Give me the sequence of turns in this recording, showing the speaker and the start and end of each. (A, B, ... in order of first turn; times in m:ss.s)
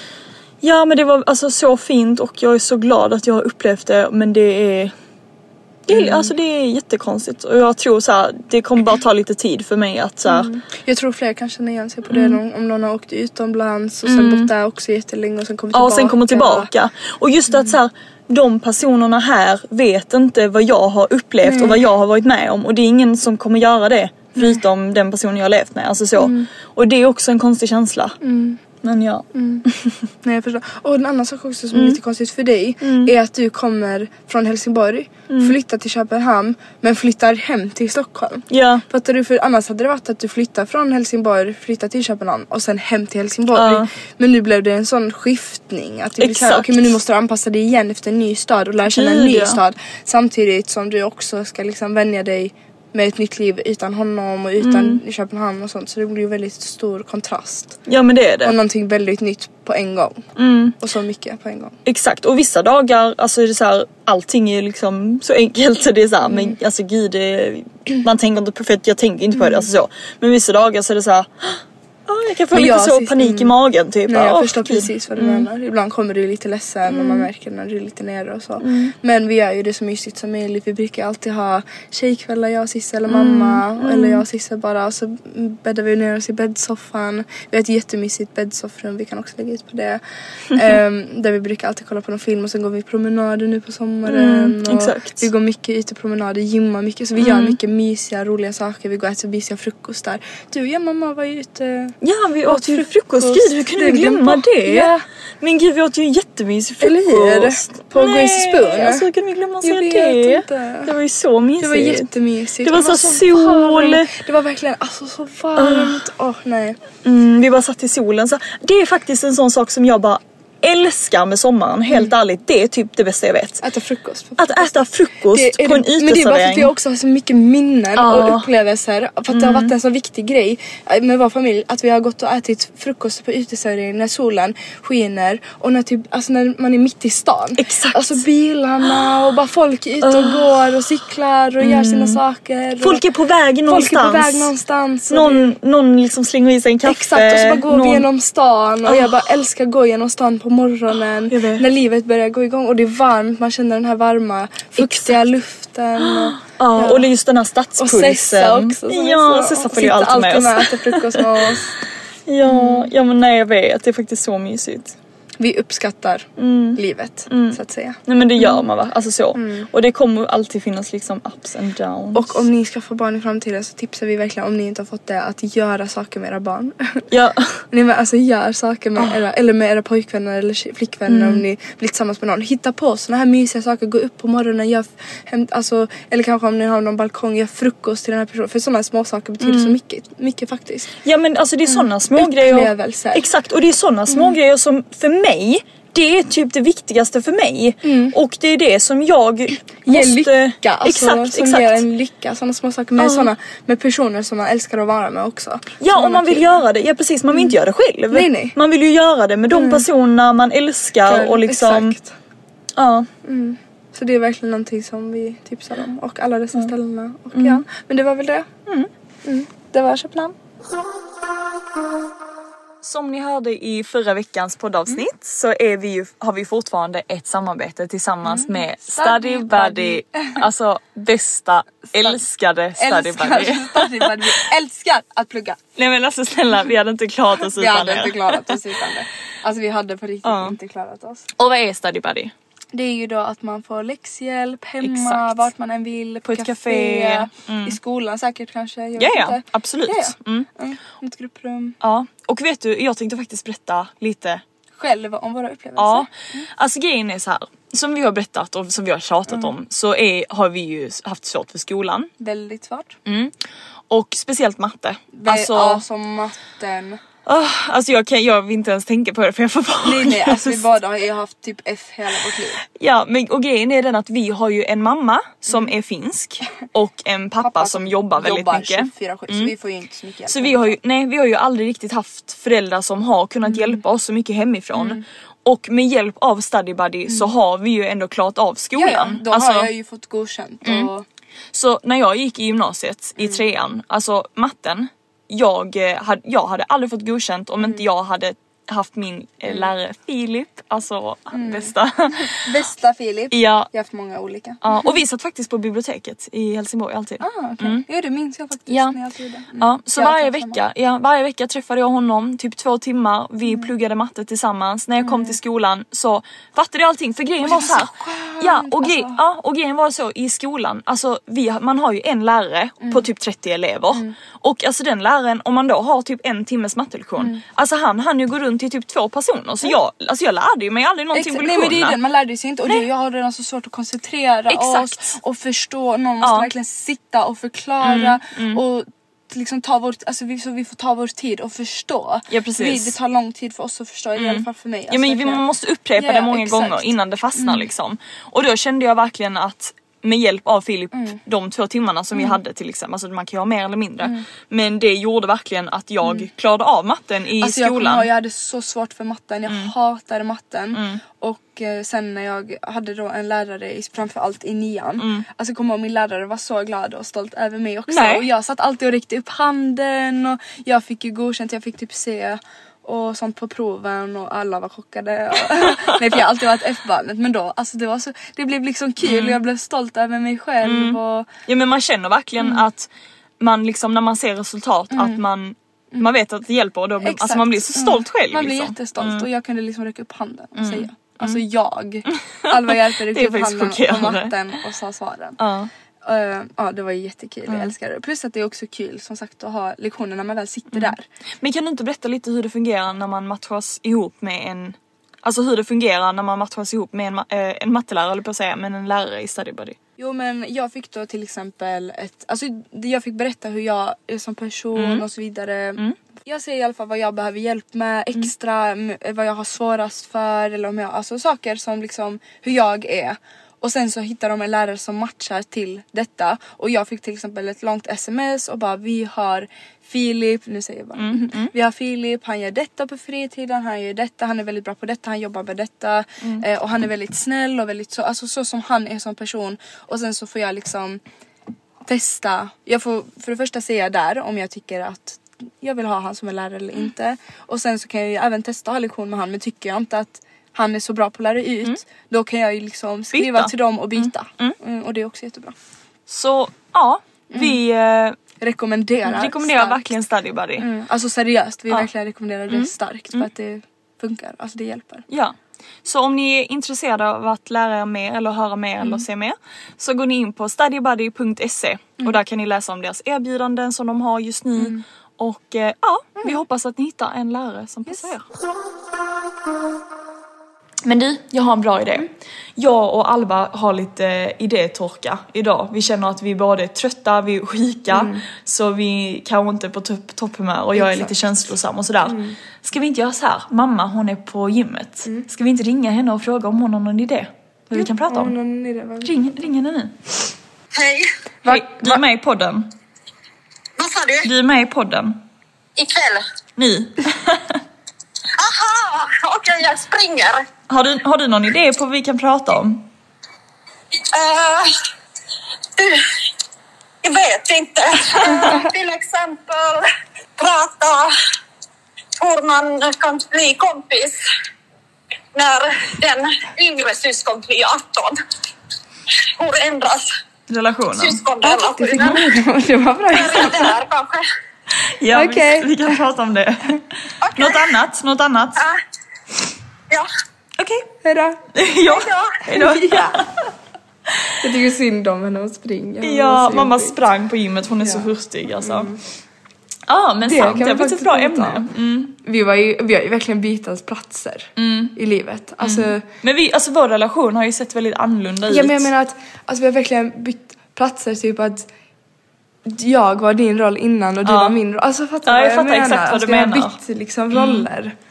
0:00.6-0:04.9 A
0:05.9-0:10.5 A
0:05.9-0:06.3 B
0:10.3-0:16.7 B
0:12.1-0:12.4 A
0:14.0-0:14.5 A
0:15.7-0:28.2 A
0:21.4-0:21.8 B
0:26.2-0:26.5 B
0:28.2-0:28.6 B
0:28.8-0:29.9 A
0:29.3-0:29.6 B
0:30.2-0:57.8 B
0:31.7-0:32.0 A
0:32.8-0:33.1 A
0:35.3-0:35.6 A
0:38.5-0:38.8 A
0:43.5-0:43.9 A
0:46.2-0:46.9 A
0:48.9-0:49.6 A
0:54.6-0:55.0 A
0:57.9-0:58.6 A
0:58.4-1:00.2 B
1:00.4-1:00.8 A
1:00.8-1:01.8 B
1:01.9-1:15.5 A
1:06.2-1:06.6 B
1:09.4-1:09.7 B
1:12.5-1:13.5 B
1:14.1-1:42.0 B
1:16.9-1:17.3 A
1:18.6-1:18.9 A
1:23.1-1:24.2 A
1:34.1-1:35.2 A
1:37.2-1:37.6 A
1:42.0-1:52.1 A
1:42.5-1:45.0 B
1:46.8-1:49.1 B
1:49.6-1:50.9 B
1:51.6-1:56.8 B
1:52.6-1:54.1 A
1:55.6-1:56.0 A
1:57.0-2:03.6 A
2:03.6-2:23.0 B
2:04.4-2:06.7 A
2:08.0-2:08.5 A
2:09.3-2:09.7 A
2:17.6-2:18.2 A
2:20.0-2:20.8 A
2:21.6-2:22.2 A
2:22.8-2:24.5 A
2:23.7-2:25.5 B
2:25.1-2:28.1 A
2:26.9-2:37.1 B
2:28.9-2:29.2 A
2:31.3-2:31.6 A
2:34.8-2:35.2 A
2:36.0-2:41.6 A
2:37.8-2:41.7 B
2:42.3-2:45.0 A
2:42.5-2:42.9 B
2:45.4-2:48.6 B
2:46.4-2:52.4 A
2:49.4-2:49.7 B
2:52.1-2:57.0 B
2:57.1-2:57.6 A
2:57.7-3:10.9 B
3:01.1-3:01.4 A
3:09.4-3:09.8 A
3:11.0-3:21.8 A
3:11.7-3:13.2 B
3:14.1-3:14.4 B
3:17.8-3:18.2 B
3:19.9-3:26.6 B
3:23.0-3:23.3 A
3:25.8-3:32.0 A
3:27.3-3:27.6 B
3:28.1-3:28.6 B
3:29.5-3:29.8 B
3:31.1-3:32.1 B
3:32.8-3:33.1 A
3:33.2-3:38.5 B
3:37.3-3:37.6 A
3:39.2-3:40.4 B
3:42.8-3:54.3 A
3:48.2-3:50.4 B
3:52.8-3:55.6 B
3:55.8-3:58.6 A
3:57.6-4:01.3 B
4:00.2-4:00.6 A
4:01.4-4:02.3 A
4:02.7-4:11.8 B
4:04.8-4:05.5 A
4:06.3-4:07.8 A
4:09.0-4:10.5 A
4:11.8-4:14.4 A
4:14.8-4:16.5 B
4:15.8-4:22.1 A
4:22.2-4:23.0 B
4:23.1-4:23.3 A
4:23.9-4:25.8 A
4:25.1-4:27.0 B
4:27.3-4:30.6 A
4:29.8-4:32.6 B
4:32.8-4:39.5 A
4:37.4-4:40.8 B
4:40.3-4:49.7 A
4:43.4-4:43.8 B
4:44.8-4:45.0 B
4:47.1-4:47.3 B
4:48.8-4:51.1 B
4:50.6-4:50.9 A
4:51.5-5:02.5 A
5:01.3-5:04.6 B
5:03.3-5:03.7 A
5:04.6-5:07.8 A
5:07.2-5:10.6 B
5:08.7-5:09.0 A
5:09.6-5:32.0 A
5:15.0-5:15.4 B
5:17.4-5:19.2 B
5:31.1-5:45.4 B
5:34.5-5:35.1 A
5:36.2-5:36.5 A
5:37.8-5:38.6 A
5:42.3-5:43.0 A
5:44.2-5:58.1 A
5:46.0-5:47.7 B
5:52.1-5:52.4 B
5:57.4-6:21.3 B
5:59.5-5:59.7 A
6:00.7-6:01.0 A
6:05.0-6:05.2 A
6:07.9-6:08.3 A
6:15.6-6:15.8 A
6:19.0-6:19.4 A
6:20.6-6:22.9 A
6:23.4-6:29.3 A
6:24.9-6:25.2 B
6:27.0-6:35.4 B
6:30.6-6:31.4 A
6:32.4-6:34.4 A
6:35.4-6:35.7 A
6:36.0-6:41.0 B
6:37.5-6:37.7 A
6:40.7-6:49.8 A
6:50.0-7:21.0 B
6:54.8-6:55.0 A
7:11.0-7:11.5 A
7:21.9-7:35.6 B
7:33.1-7:34.6 A
7:36.1-7:38.2 A
7:37.3-7:37.6 B
7:38.4-7:39.9 B
7:39.0-7:40.7 A
7:40.6-7:45.1 B
7:42.5-7:43.3 A
7:45.1-7:58.2 A
7:54.6-7:54.8 B
8:00.8-8:18.4 A
8:07.9-8:08.2 B
8:10.8-8:11.1 B
8:12.0-8:12.4 B
8:17.8-8:19.3 B
8:19.0-8:20.0 A
8:20.7-8:21.1 C
8:21.4-8:22.0 B
8:21.5-8:22.7 A
8:23.8-8:24.3 C
8:24.2-8:25.2 A
8:25.8-8:26.2 C
8:26.6-8:27.6 A
8:28.4-8:30.4 C
8:30.7-8:32.9 A
8:34.1-8:34.7 C
8:35.8-8:36.0 C
8:37.0-8:39.9 C
8:40.4-8:41.1 C
8:42.2-8:44.2 C
8:45.4-8:48.2 C
8:49.4-8:50.1 C
8:50.5-8:51.2 A
8:51.0-8:52.2 C
8:51.5-8:53.7 B
8:53.1-8:54.3 C
8:55.0-8:56.8 A
8:55.1-8:56.0 B
8:57.2-8:57.7 C
8:57.4-8:58.6 A
9:00.6-9:00.9 A
9:01.0-9:01.4 B
9:01.6-9:03.3 A
9:01.9-9:02.4 C
9:02.5-9:03.3 B
9:04.4-9:07.0 B
9:06.0-9:08.9 A
9:07.8-9:08.1 B
9:08.6-9:09.0 B
9:09.9-9:12.2 A
9:10.2-9:11.7 B
9:12.2-9:16.0 B
9:14.6-9:15.0 A
9:15.6-9:18.9 A
9:18.5-9:21.7 B
9:22.7-9:28.0 B
9:24.2-9:24.6 A
9:25.2-9:26.8 A
9:27.3-9:27.7 A